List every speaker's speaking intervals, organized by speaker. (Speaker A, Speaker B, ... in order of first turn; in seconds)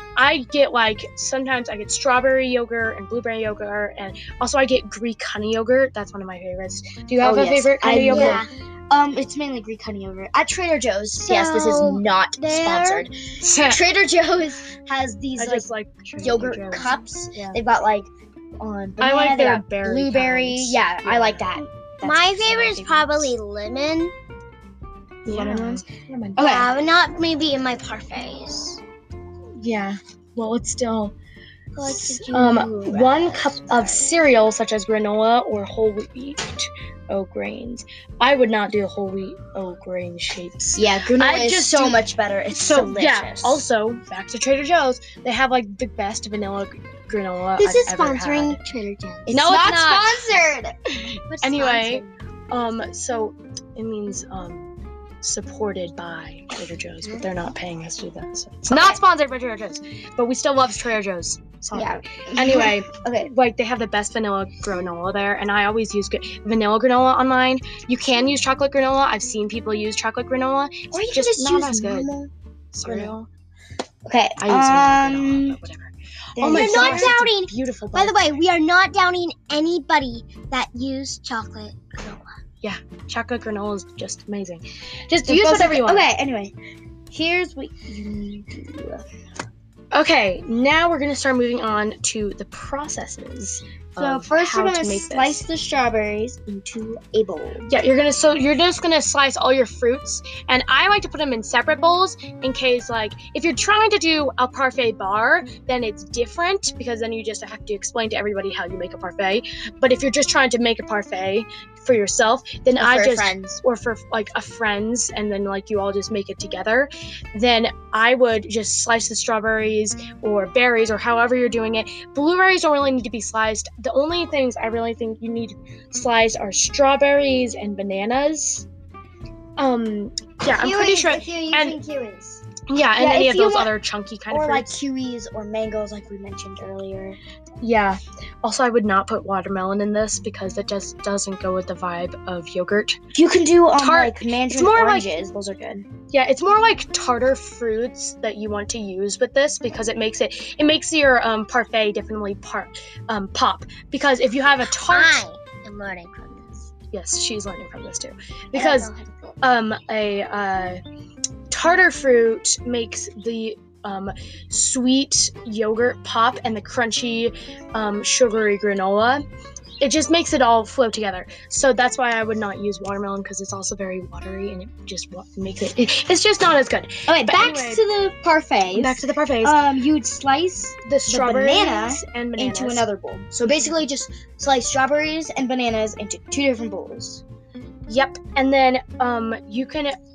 Speaker A: 0.1-8.4, 13.4-13.8, 15.3-17.6, 19.0-21.5, 22.1-23.3, 25.2-26.5, 29.6-31.1, 32.1-42.0, 42.5-48.6, 49.3-50.1, 51.4-54.7, 55.2-72.1, 72.7-73.3, 74.4-78.3, 82.6-86.1, 89.9-95.4, 97.7-128.7, 129.6-131.8, 132.7-134.8, 137.6-143.0, 143.8-145.2, 146.1-155.2, 156.9-158.9, 159.4-160.8, 161.5-169.2, 169.8-177.8, 178.7-179.6, 180.8-182.8, 187.9-190.0
Speaker B: 7.2-15.7, 16.2-23.0, 25.2-25.8, 26.4-26.7, 32.9-34.0, 40.8-43.6, 49.3-50.7, 58.7-59.0, 61.7-63.3, 70.9-72.3, 72.8-73.1, 74.0-75.6, 76.3-77.2, 85.2-86.5, 87.1-89.0, 94.0-97.7, 112.8-113.6, 130.4-132.4, 132.9-133.7, 134.3-137.2, 143.1-145.9, 177.1-187.2
Speaker C: 8.0-8.5, 11.2-13.1, 22.0-24.1, 26.4-28.8, 31.7-33.2, 47.6-49.5, 51.3-52.2, 76.5-82.4, 154.7-156.7, 158.5-159.4